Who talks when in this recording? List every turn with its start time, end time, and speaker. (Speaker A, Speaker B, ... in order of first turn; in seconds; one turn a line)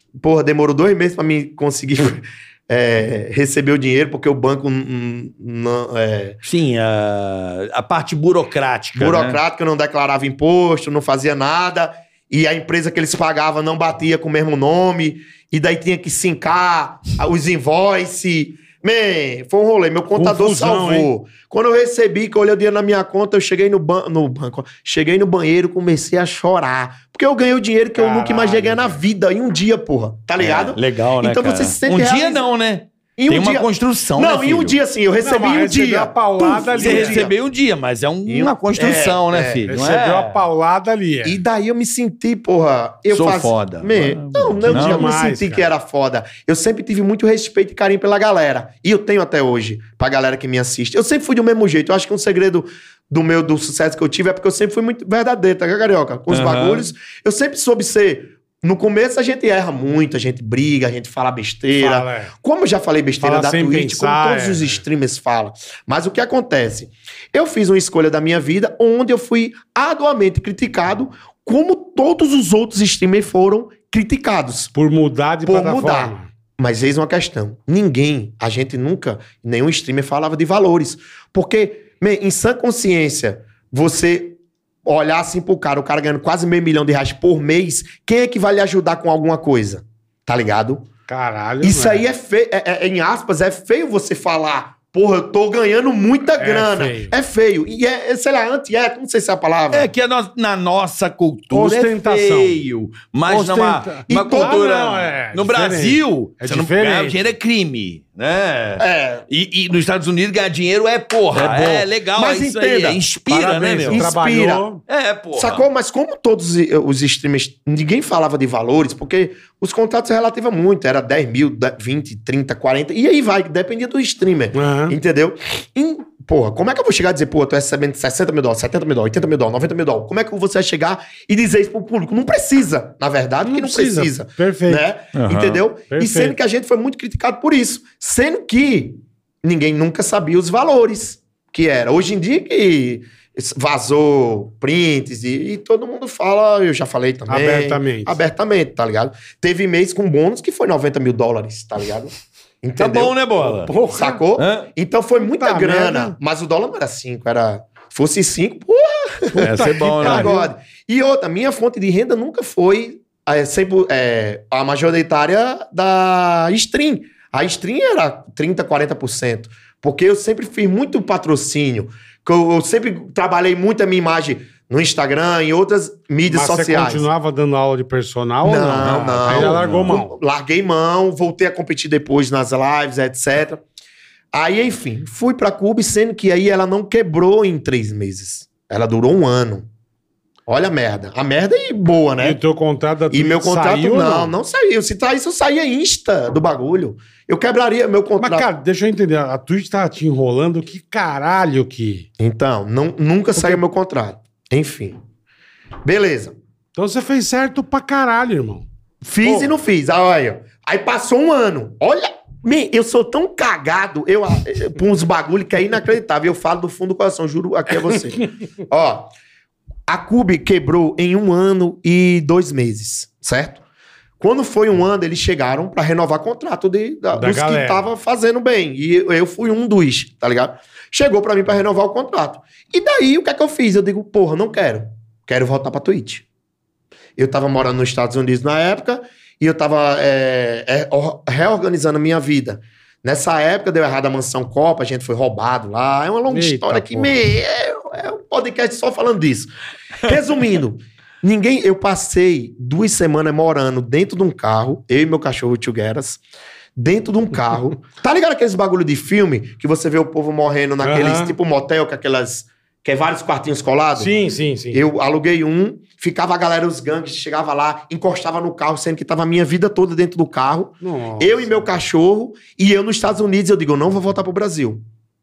Speaker A: 0.2-6.4
Speaker B: 6.4-9.4
Speaker A: 8.9-32.5
Speaker C: 20.1-21.1
Speaker C: 27.9-29.0
Speaker B: 30.4-34.8
Speaker A: 33.2-37.4
Speaker C: 35.2-37.3
Speaker B: 36.8-40.4
Speaker A: 38.2-39.7
Speaker C: 39.7-41.4
Speaker A: 41.2-74.7
Speaker B: 43.1-45.1
Speaker C: 44.6-45.7
Speaker B: 56.3-56.9
Speaker C: 61.7-62.3
Speaker C: 63.2-64.8
Speaker C: 74.7-76.3
Speaker A: 75.4-90.9
Speaker C: 91.1-92.0
Speaker A: 91.6-99.9
Speaker C: 96.4-97.1
Speaker B: 99.7-114.1
Speaker C: 101.5-102.6
Speaker C: 103.2-107.2
Speaker A: 104.1-104.6
Speaker A: 108.8-109.2
Speaker A: 111.3-113.0
Speaker C: 113.3-114.8
Speaker A: 113.9-114.7
Speaker B: 114.9-115.6
Speaker A: 115.3-177.1
Speaker C: 124.5-125.0
Speaker C: 133.4-134.8
Speaker B: 135.1-135.6
Speaker C: 135.9-136.3
Speaker C: 147.3-148.2
Speaker B: 152.8-153.7
Speaker B: 154.3-154.7
Speaker C: 155.3-156.2
Speaker C: 159.3-160.5
Speaker B: 159.4-160.3
Speaker C: 176.3-180.2
Speaker A: 178.4-183.6
Speaker B: 178.8-179.9
Speaker A: 184.3-189.7
Speaker A: 190.5-192.4
Speaker C: 192.2-194.3
Speaker A: 193.1-198.5
Speaker C: 198.2-202.1
Speaker A: 202.2-204.9
Speaker C: 203.4-203.6
Speaker A: 205.8-206.3
Speaker C: 206.8-208.6
Speaker A: 209.0-219.1
Speaker C: 209.2-209.5
Speaker A: 219.9-223.6
Speaker A: 224.2-236.2
Speaker C: 227.1-227.9
Speaker A: 237.2-249.5
Speaker C: 246.3-247.2
Speaker A: 250.0-256.2
Speaker A: 256.8-264.1
Speaker C: 260.8-261.4
Speaker C: 264.0-264.8
Speaker A: 264.7-274.8
Speaker C: 270.8-271.5